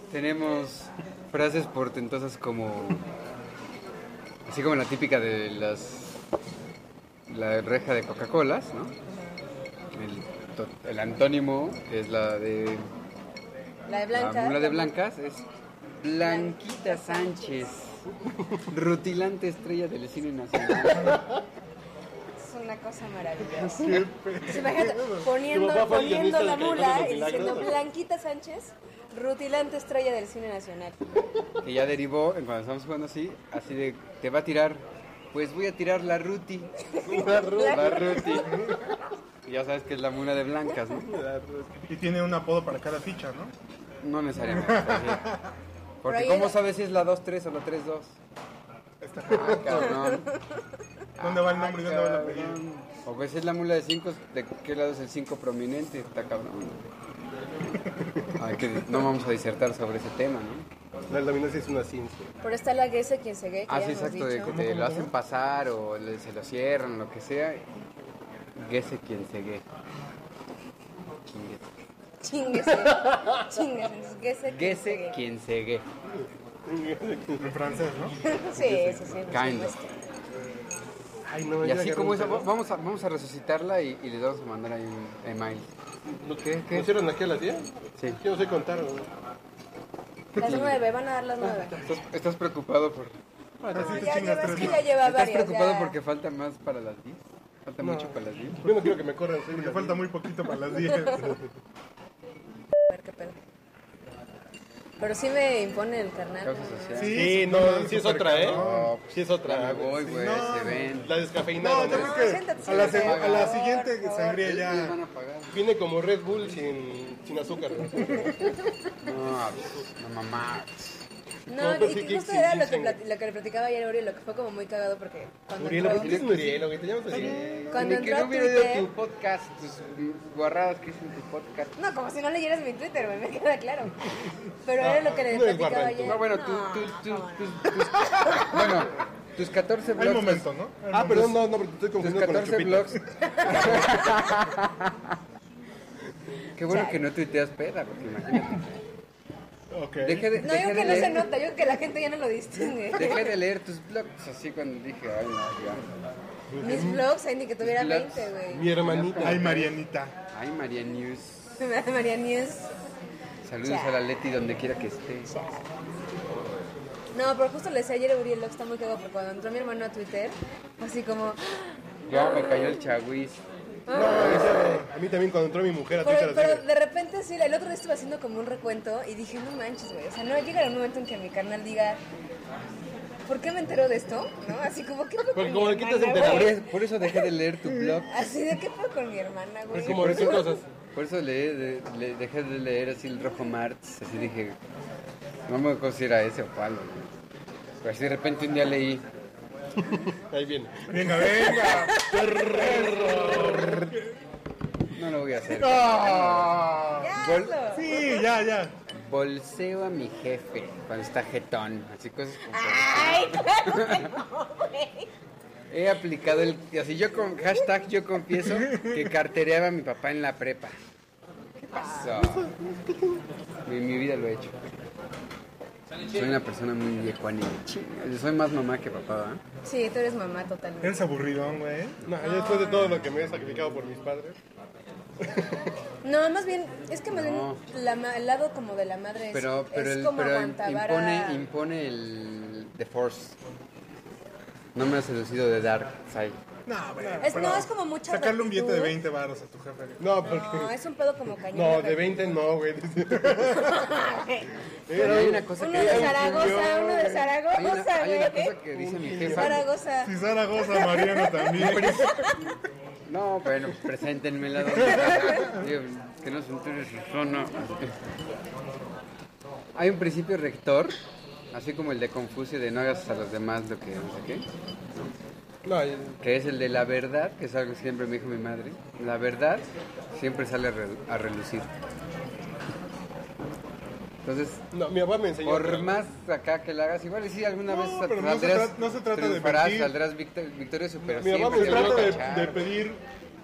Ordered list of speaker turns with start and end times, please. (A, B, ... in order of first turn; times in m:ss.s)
0:00.1-0:03.1 A
0:04.5-0:06.2 A
0:07.3-0:08.9 A
0:09.9-0:12.9 A
0:13.9-0:14.9 B
0:14.1-0:15.5 A
0:16.0-0:18.0 A
0:16.2-0:17.7 B
0:18.3-0:18.6 C
0:18.7-0:21.2 A
0:20.9-0:21.4 C
0:22.4-0:31.1 B
0:23.4-0:24.1 A
0:23.8-0:25.3 D
0:25.4-0:27.8 C
0:31.6-0:36.7 A
0:36.8-0:38.8 B
0:37.0-0:38.5 C
0:37.6-0:38.7 A
0:38.4-0:38.8 D
0:39.5-0:41.1 A
0:40.9-0:41.9 C
0:41.9-0:43.5 D
0:44.0-0:45.4 A
0:44.5-0:45.5 D
0:46.0-0:48.2 A
0:46.1-0:46.6 B
0:49.0-0:50.1 D
0:49.3-0:50.4 A
0:49.3-0:49.9 C
0:50.1-0:50.4 B
0:51.2-0:56.8 A
0:51.2-0:52.6 D
0:58.2-1:00.7 A
1:01.1-1:02.3 C
1:02.4-1:04.5 B
1:03.7-1:07.6 A
1:04.4-1:05.1 D
1:08.6-1:09.6 A
1:11.3-1:11.6 A
1:12.2-1:15.2 B
1:12.9-1:13.2 C
1:14.5-1:15.8 A
1:16.2-1:17.5 C
1:17.4-1:18.2 D
1:18.2-1:19.9 B
1:18.6-1:19.2 C
1:19.3-1:19.8 A
1:21.2-1:22.5 C
1:21.6-1:25.7 A
1:26.2-1:29.1 C
1:26.4-1:26.9 A
1:30.4-1:30.8 A
1:30.4-1:31.8 B
1:31.4-1:33.1 A
1:33.6-1:34.2 C
1:33.7-1:34.9 D
1:33.8-1:35.9 B
1:34.4-1:38.9 A
1:37.8-1:40.1 C
1:39.5-1:41.4 D
1:42.9-1:43.4 B
1:45.0-1:46.6 B
1:46.4-1:47.4 A
1:47.0-1:48.9 D
1:47.0-1:52.4 C
1:48.4-1:51.1 A
1:50.0-1:51.0 D
1:51.6-1:55.0 D
1:51.8-1:54.4 B
1:52.6-1:53.6 A
1:54.4-1:55.6 A
1:55.5-1:58.6 C
1:59.0-2:01.0 A
2:01.5-2:06.2 B
2:01.6-2:03.0 C
2:05.6-2:07.5 C
2:05.8-2:11.8 A
2:07.1-2:08.1 D
2:07.7-2:08.9 B
2:11.8-2:14.1 B
2:14.6-2:18.7 B
2:14.8-2:16.2 C
2:16.0-2:20.5 A
2:20.0-2:21.5 D
2:20.9-2:24.0 C
2:22.0-2:25.2 A
2:23.3-2:23.8 B
2:26.6-2:28.8 A
2:26.7-2:27.0 B
2:29.7-2:30.4 D
2:30.0-2:31.3 A
2:30.4-2:33.4 B
2:32.9-2:35.9 A
2:36.5-2:37.0 C
2:36.6-2:38.6 B
2:37.6-2:39.7 A
2:38.5-2:39.5 C
2:39.2-2:40.2 D
2:40.3-2:41.6 A
2:41.6-2:42.7 B
2:43.4-2:45.4 A
2:43.6-2:44.0 B
2:47.1-2:52.8 B
2:52.1-2:53.4 A
2:53.9-2:54.3 B
2:53.9-2:56.6 C
2:54.0-2:54.9 A
2:56.0-3:02.0 B
3:03.3-3:06.6 B
3:05.3-3:06.6 C
3:06.2-3:08.3 A
3:08.1-3:10.6 B
3:09.7-3:10.7 C
3:09.8-3:10.4 A
3:10.9-3:14.6 A
3:15.5-3:17.1 A
3:17.8-3:19.0 A
3:19.8-3:24.0 C
3:20.9-3:24.1 D
3:24.9-3:27.8 A
3:25.6-3:27.1 D
3:27.0-3:28.1 B
3:27.7-3:28.7 D
3:28.9-3:34.1 A
3:32.5-3:35.1 B
3:35.7-3:40.8 A
3:41.6-3:42.5 A
3:42.0-3:43.2 C
3:43.7-3:44.6 A
3:46.1-3:49.4 A
3:49.6-3:51.0 B
3:50.8-3:52.0 D
3:52.0-3:54.4 C
3:52.2-3:53.0 B
3:52.6-3:53.6 A
3:56.0-4:01.4 B
3:57.1-3:57.6 A
3:59.3-4:03.4 A
4:04.8-4:06.4 A
4:06.7-4:10.1 D
4:07.0-4:07.7 C
4:07.2-4:09.0 B
4:10.0-4:10.8 C
4:10.2-4:12.2 B
4:11.5-4:13.8 C
4:13.6-4:14.5 B
4:14.9-4:17.3 C
4:15.0-4:16.7 A
4:15.0-4:18.5 B
4:17.5-4:19.6 A
4:18.7-4:19.6 C
4:19.3-4:20.2 B
4:20.0-4:22.3 D
4:21.5-4:22.2 A
4:23.1-4:27.9 A
4:24.7-4:25.7 D
4:29.8-4:31.0 A
4:31.5-4:34.4 A
4:35.6-4:36.2 C
4:36.2-4:41.7 A
4:44.2-4:44.6 A
4:44.7-4:46.0 C
4:45.4-4:52.6 A
4:47.6-4:49.9 D
4:51.0-4:52.6 C
4:51.5-4:53.0 D